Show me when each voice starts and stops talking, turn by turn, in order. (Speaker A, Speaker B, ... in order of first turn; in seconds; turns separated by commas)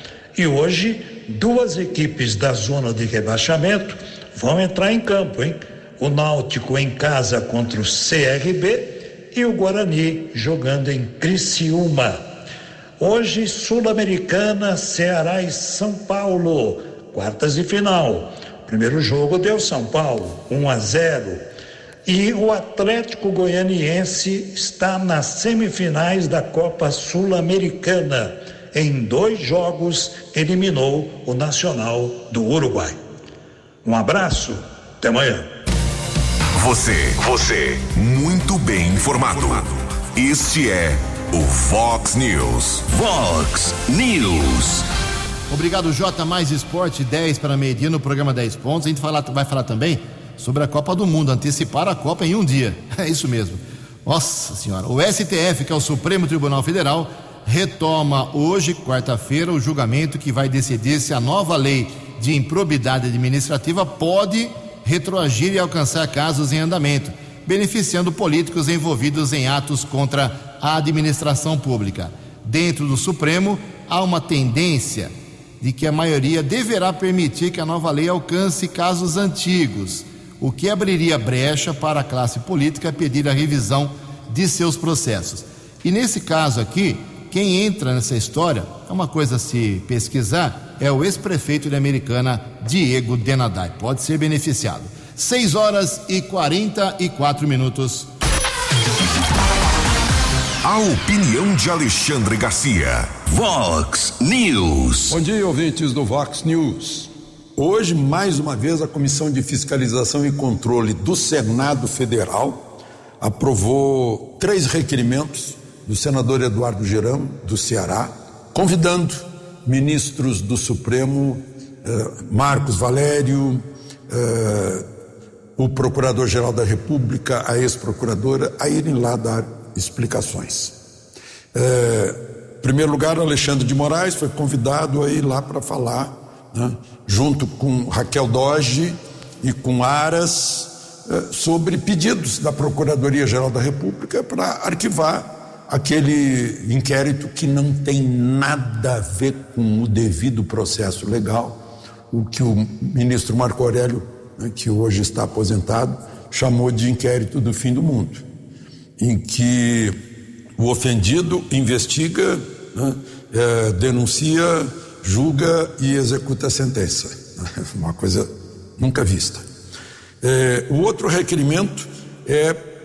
Speaker A: 0.3-12.3, Speaker A: 13.0-21.4, Speaker A: 22.1-33.0, Speaker A: 33.8-35.5, Speaker B: 36.5-42.9, Speaker C: 42.9-44.9, Speaker D: 45.5-98.1, Speaker B: 100.6-103.1, Speaker C: 103.3-105.2, Speaker E: 105.1-112.6, Speaker E: 113.2-124.9, Speaker E: 125.6-130.8, Speaker E: 131.5-151.6, Speaker E: 152.1-158.2, Speaker E: 159.0-160.0, Speaker E: 160.6-169.5, Speaker E: 170.2-172.6